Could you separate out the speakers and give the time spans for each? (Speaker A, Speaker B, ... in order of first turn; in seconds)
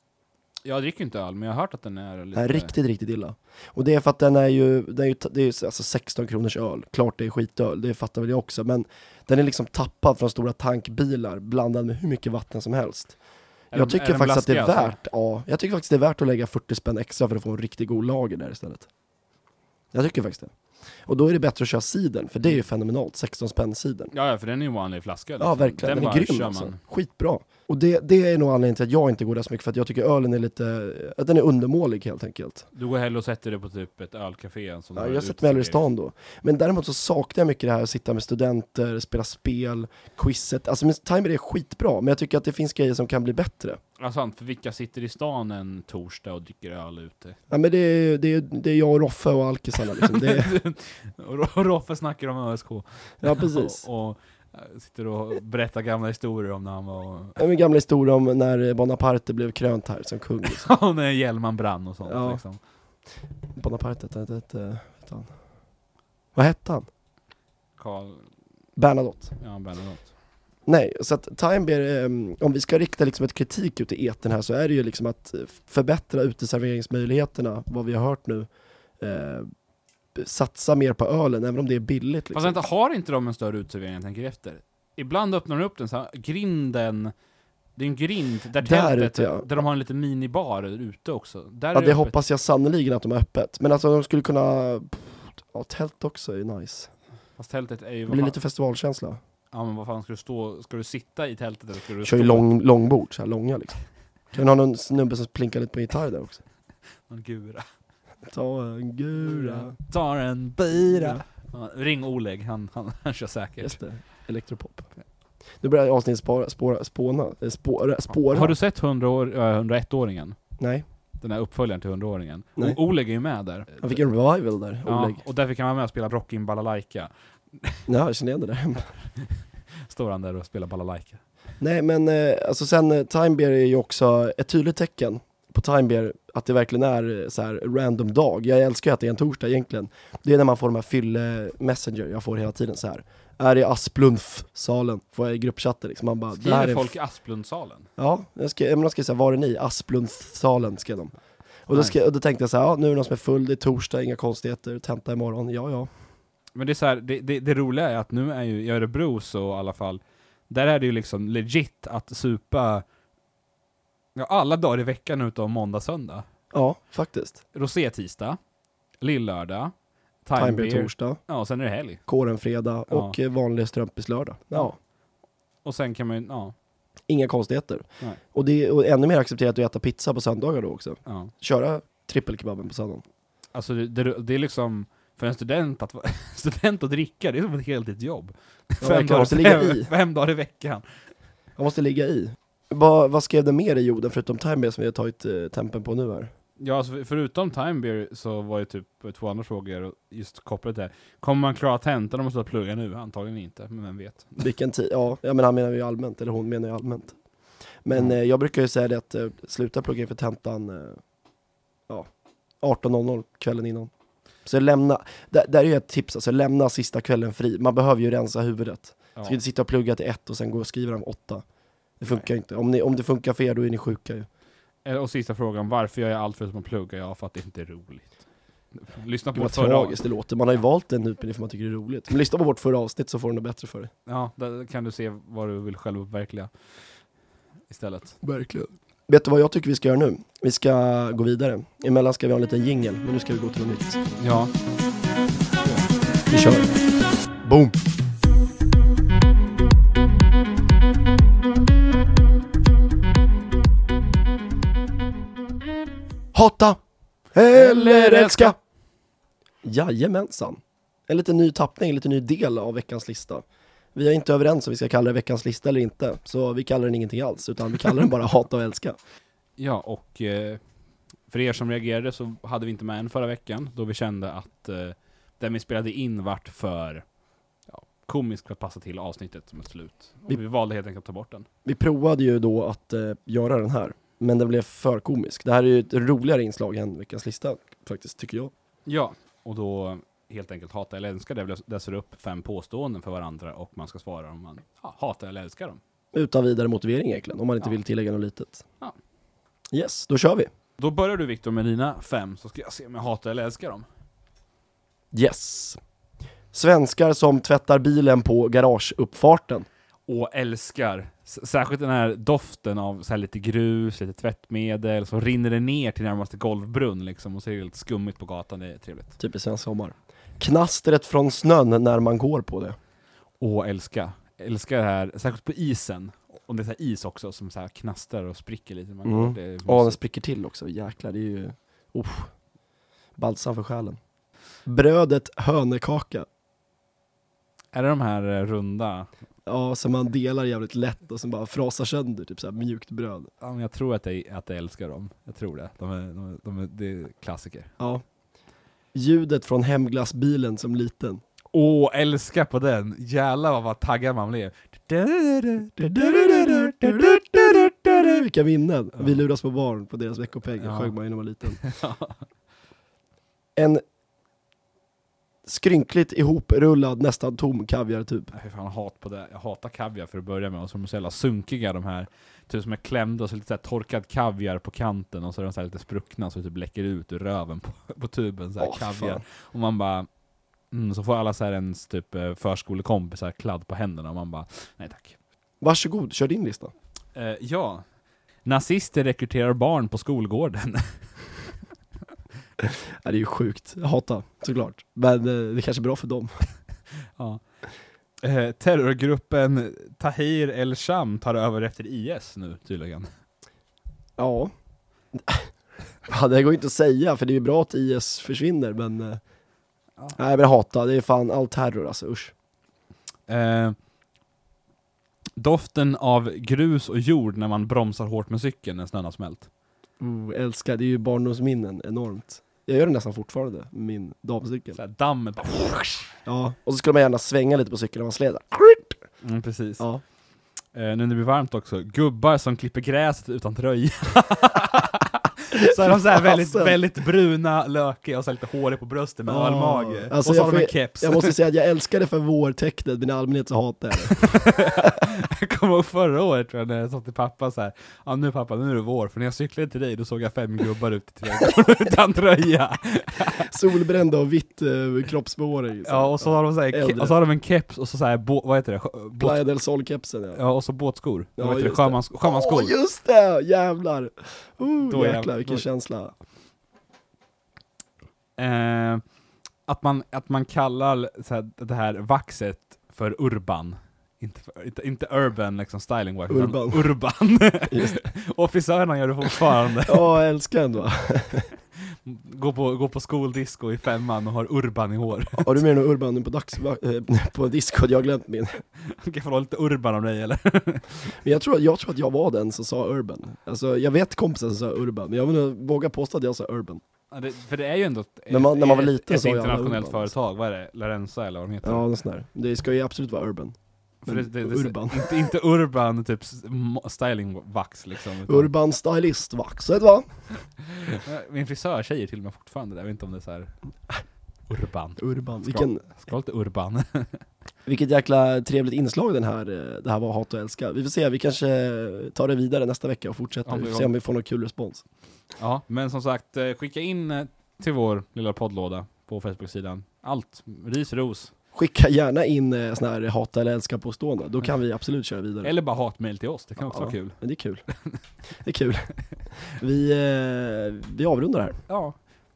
Speaker A: 0.6-2.7, 13.7-15.0, 24.1-26.8, 32.7-35.8, 44.0-47.4, 50.0-57.4, 60.4-62.6, 67.8-68.3, 69.4-70.1, 82.3-87.1, 87.8-92.1, 97.4-98.4, 99.5-102.5, 107.1-107.6, 109.2-113.8, 118.3-120.4, 121.2-124.0, 124.8-127.8, 129.2-131.2, 146.3-147.9, 156.6-162.8, 164.2-166.2, 167.5-168.4, 169.0-169.7, 170.2-172.0, 172.9-173.2, 175.6-176.5, 181.1-181.3, 183.5-190.8, 196.6-204.4, 224.8-228.1, 228.8-230.0, 234.1-236.5, 237.7-238.2, 244.2-244.5, 257.5-258.5, 269.6-270.6, 271.3-277.0, 277.7-281.5, 288.9-295.8, 300.8-303.9, 310.1-319.2, 323.4-330.0, 337.7-339.1, 343.4-347.7, 351.5-357.2, 358.9-359.2, 360.6-360.9, 361.5-362.2, 368.3-380.1, 380.7-385.1, 387.1-387.8, 388.4-390.9, 397.2-397.4, 398.2-403.1, 413.3-413.8, 415.4-419.5, 424.7-426.2, 429.2-429.8, 430.7-441.3, 444.2-453.5, 455.8-459.4, 460.3-462.7, 464.9-465.6, 468.4-469.0, 469.7-480.0, 481.9-485.6, 488.8-491.2, 497.1-501.8, 504.1-508.5, 510.6-513.5, 514.5-517.2, 523.5-523.9, 525.4-531.3, 535.4-537.2, 541.7-542.0
Speaker B: 2.3-13.2, 13.7-18.9, 19.9-20.5, 21.1-24.1, 25.4-32.6, 35.0-43.8, 47.5-50.5, 53.2-53.8, 57.4-60.7, 62.0-62.4, 63.5-65.3, 66.3-66.9, 68.8-69.3, 70.7-78.5, 79.0-79.5, 80.1-82.6, 88.6-89.5, 91.7-96.9, 98.1-99.2, 102.0-103.8, 104.3-106.4, 108.2-109.7, 110.8-111.2, 113.6-114.9, 115.6-118.5, 120.6-120.8, 123.8-125.2, 127.9-128.9, 131.6-146.9, 148.0-151.1, 151.7-155.9, 166.5-167.4, 170.3-171.2, 172.1-174.8, 177.1-183.0, 188.8-189.9, 191.6-196.3, 204.4-207.2, 207.8-211.0, 212.6-213.9, 214.4-221.4, 222.0-224.3, 229.3-233.9, 238.2-244.1, 245.6-246.8, 247.4-247.8, 256.3-256.8, 257.3-258.5, 259.6-269.0, 281.6-288.5, 296.1-298.6, 299.7-300.5, 305.1-305.8, 306.5-309.7, 319.2-322.8, 329.0-332.3, 333.2-334.0, 334.6-336.3, 339.4-343.3, 347.8-348.0, 348.9-351.2, 355.8-361.6, 363.6-363.8, 365.4-368.3, 378.6-379.2, 385.6-386.7, 392.6-396.3, 404.2-404.5, 405.1-405.5, 406.1-409.2, 410.1-412.3, 420.0-424.8, 426.2-429.0, 435.6-436.8, 439.3-444.3, 453.4-457.1, 459.2-460.4, 461.4-466.1, 476.3-476.8, 477.7-478.0, 479.9-481.5, 485.4-488.6, 491.2-496.8, 498.3-500.1, 501.6-505.1, 508.3-510.1, 515.0-515.9, 517.6-524.8, 531.5-535.5, 536.6-537.6, 538.4-538.9, 539.4-541.6